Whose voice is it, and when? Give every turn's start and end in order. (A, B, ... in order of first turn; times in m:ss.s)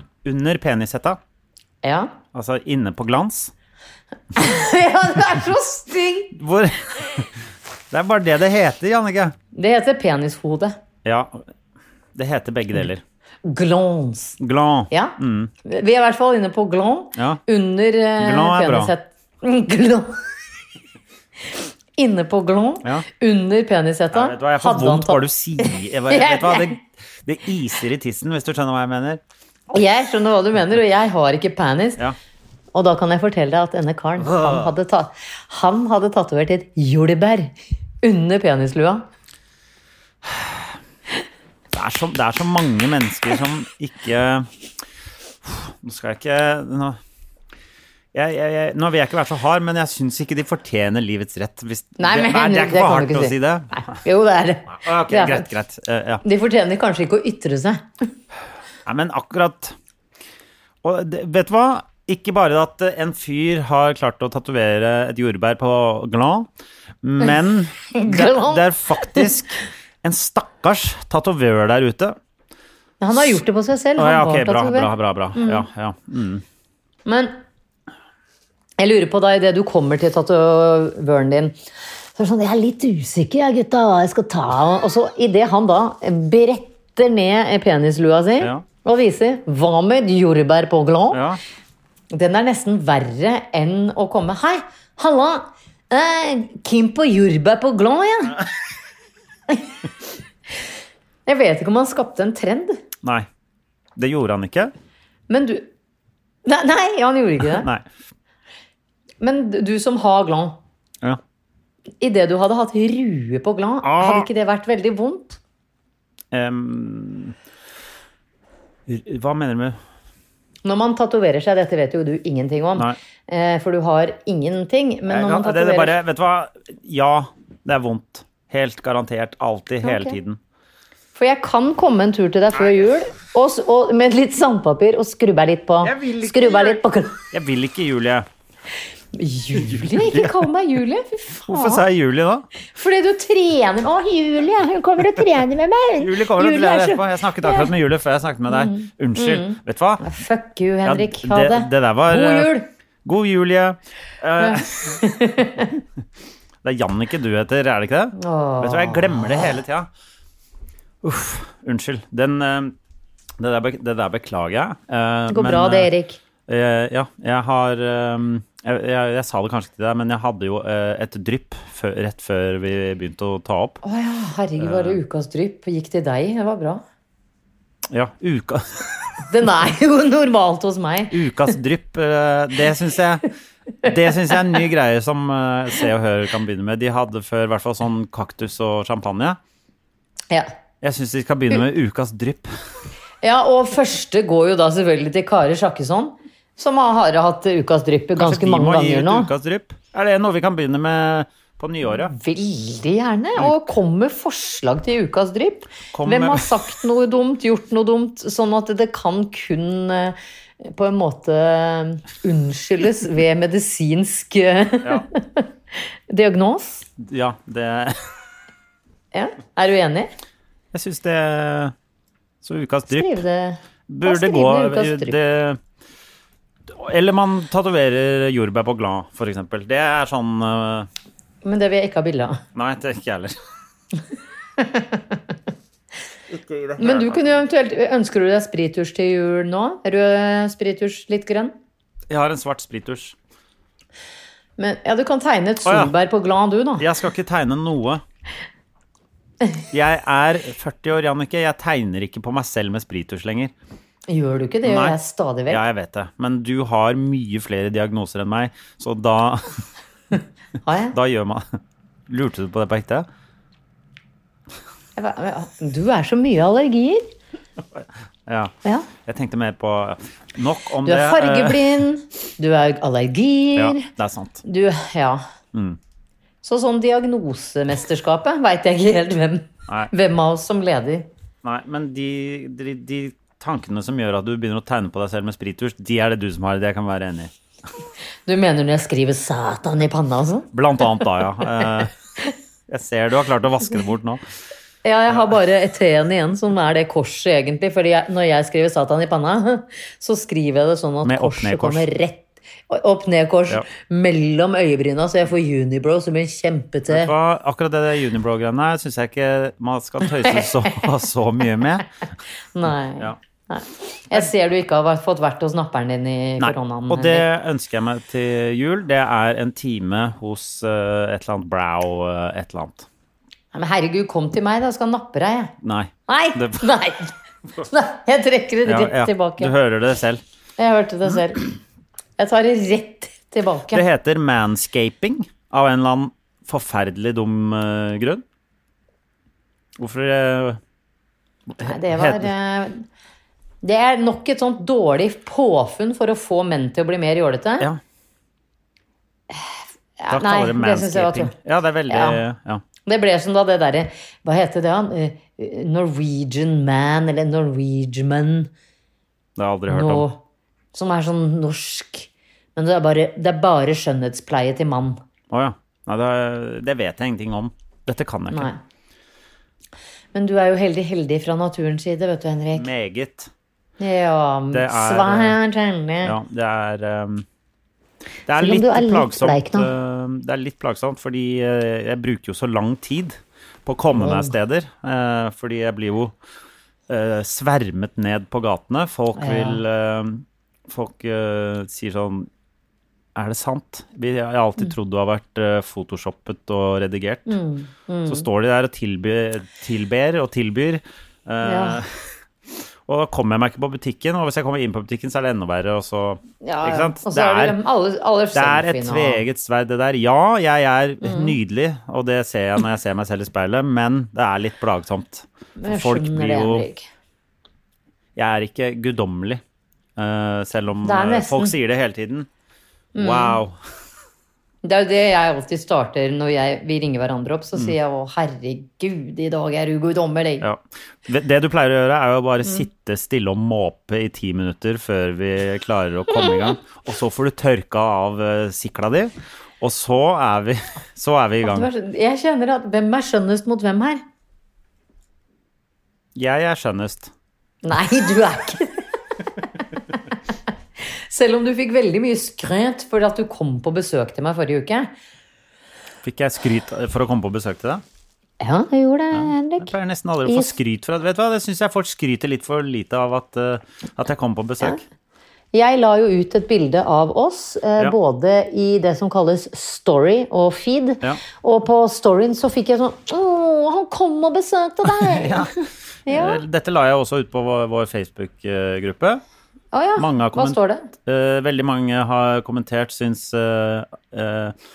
0:00.2-0:01.2 A
0:01.8-0:02.1 B
0:02.3-0:03.5 A
0:04.3-0:06.3 B
0:06.3-0:07.3 A
0:07.9-0:09.3 A
0:09.5-0:10.8 B
0:11.0-0:11.4 A
0:12.1-0:13.0 A
0:13.4-0:14.4 B
0:14.4-0:15.5 A
0:14.9-0:20.2 B
0:17.2-0:17.4 A
0:18.2-0:18.9 A
0:22.0-0:26.8 B
0:24.1-0:29.2 A
0:29.7-0:32.0 B
0:32.7-0:39.0 B
0:34.2-0:34.7 A
0:40.2-0:40.6 A
0:41.7-0:44.5 A
0:45.4-0:47.0 A
0:48.1-0:53.7 A
0:52.0-0:55.5 B
0:54.7-0:56.2 A
0:56.2-0:57.8 B
0:58.8-0:59.8 A
1:00.8-1:06.5 A
1:07.0-1:12.2 A
1:07.9-1:09.3 B
1:13.0-1:15.6 B
1:14.0-1:16.4 A
1:17.0-1:17.4 B
1:18.8-1:21.5 B
1:22.2-1:31.2 B
1:28.4-1:28.6 A
1:31.1-1:31.4 A
1:32.1-1:38.4 B
1:41.2-1:42.8 B
1:44.0-1:44.7 A
1:45.3-1:45.7 B
1:46.4-1:47.7 B
1:47.4-1:47.9 A
1:49.2-1:50.6 B
1:52.0-1:55.4 B
1:53.8-1:54.3 A
1:56.3-1:57.3 A
1:58.9-1:59.8 A
2:00.6-2:06.0 B
2:05.1-2:10.4 A
2:09.8-2:10.2 B
2:11.1-2:17.2 B
2:15.8-2:18.3 A
2:19.1-2:21.8 B
2:19.6-2:20.4 A
2:21.5-2:22.5 A
2:22.7-2:27.7 B
2:26.0-2:30.0 A
2:28.5-2:32.7 B
2:30.8-2:32.5 A
2:33.0-2:35.0 A
2:34.4-2:35.7 B
2:36.6-2:39.9 A
2:38.1-2:39.5 B
2:41.0-2:42.7 A
2:43.4-2:45.9 A
2:45.3-2:46.2 B
2:46.5-2:53.8 A
2:53.8-2:56.8 B
2:54.6-2:55.0 A
2:57.9-2:59.2 A
2:59.2-3:01.2 B
3:01.1-3:03.2 A
3:03.8-3:09.4 A
3:10.8-3:12.5 A
3:13.2-3:19.3 B
3:18.2-3:22.1 A
3:21.9-3:35.5 B
3:23.4-3:23.7 A
3:25.9-3:26.6 A
3:36.1-3:36.9 B
3:37.0-3:38.1 A
3:39.1-3:40.1 B
3:40.7-3:41.7 A
3:42.4-3:43.2 A
3:42.9-3:45.2 B
3:43.9-3:45.6 A
3:46.7-3:50.9 A
3:51.4-3:52.4 B
3:52.5-3:53.4 A
3:54.6-3:55.0 B
3:56.3-3:57.4 A
3:56.8-4:01.5 B
4:02.1-4:03.1 A
4:04.6-4:06.8 B
4:05.6-4:05.9 A
4:06.8-4:08.0 A
4:09.7-4:13.5 A
4:14.1-4:15.6 B
4:14.6-4:19.6 A
4:20.6-4:21.0 B
4:20.9-4:23.1 A
4:25.0-4:27.1 B
4:27.7-4:31.8 A
4:30.8-4:33.9 B
4:33.6-4:34.4 A
4:34.4-4:35.2 B
4:36.4-4:41.1 B
4:41.4-4:47.3 A
4:48.3-4:50.5 B
4:50.5-4:51.9 A
4:52.7-4:54.2 A
4:54.8-5:07.1 B
5:01.0-5:01.9 A
5:06.9-5:11.9 A
5:10.2-5:10.9 B
5:12.5-5:17.2 B
5:16.4-5:22.9 A
5:23.5-5:25.5 B
5:25.6-5:26.6 A
5:26.1-5:29.5 B
5:28.6-5:30.2 A
5:30.6-5:31.5 B
5:32.2-5:33.8 B
5:33.7-5:38.2 A
5:39.8-5:40.6 A
5:41.5-5:42.3 A
5:41.6-5:42.8 B
5:43.6-5:47.7 B
5:49.3-5:51.3 B
5:50.1-5:52.6 A
5:51.9-5:52.2 B
5:52.8-5:58.5 B
5:59.4-6:00.1 A
5:59.7-6:00.2 B
6:00.7-6:05.0 B
6:05.3-6:08.5 A
6:08.3-6:08.6 B
6:10.1-6:12.7 B
6:12.5-6:13.3 A
6:13.8-6:16.2 B
6:14.5-6:15.4 A
6:16.0-6:17.2 A
6:18.3-6:26.1 A
6:18.4-6:19.7 B
6:23.9-6:24.3 B
6:26.9-6:32.3 A
6:29.2-6:29.6 B
6:33.1-6:37.4 A
6:37.3-6:38.2 B
6:38.1-6:42.1 A
6:41.4-6:41.8 B
6:42.8-6:47.6 A
6:46.4-6:49.2 B
6:48.3-6:56.7 A
6:51.0-6:51.4 B
6:55.6-6:56.9 B
6:58.2-6:59.4 A
7:00.0-7:02.3 A
7:00.8-7:01.5 B
7:02.9-7:03.4 B
7:03.0-7:03.6 A
7:04.6-7:10.5 B
7:10.4-7:21.7 A
7:21.4-7:24.0 B
7:26.1-7:27.1 A
7:27.6-7:28.8 B
7:30.8-7:34.9 B
7:36.0-7:37.8 A
7:38.4-7:39.7 B
7:39.1-7:44.8 A
7:40.2-7:40.5 B
7:45.5-7:55.5 B
7:54.8-7:55.5 A
7:56.0-7:56.4 B
7:56.0-7:59.2 A
7:59.7-8:00.9 B
8:00.0-8:04.5 A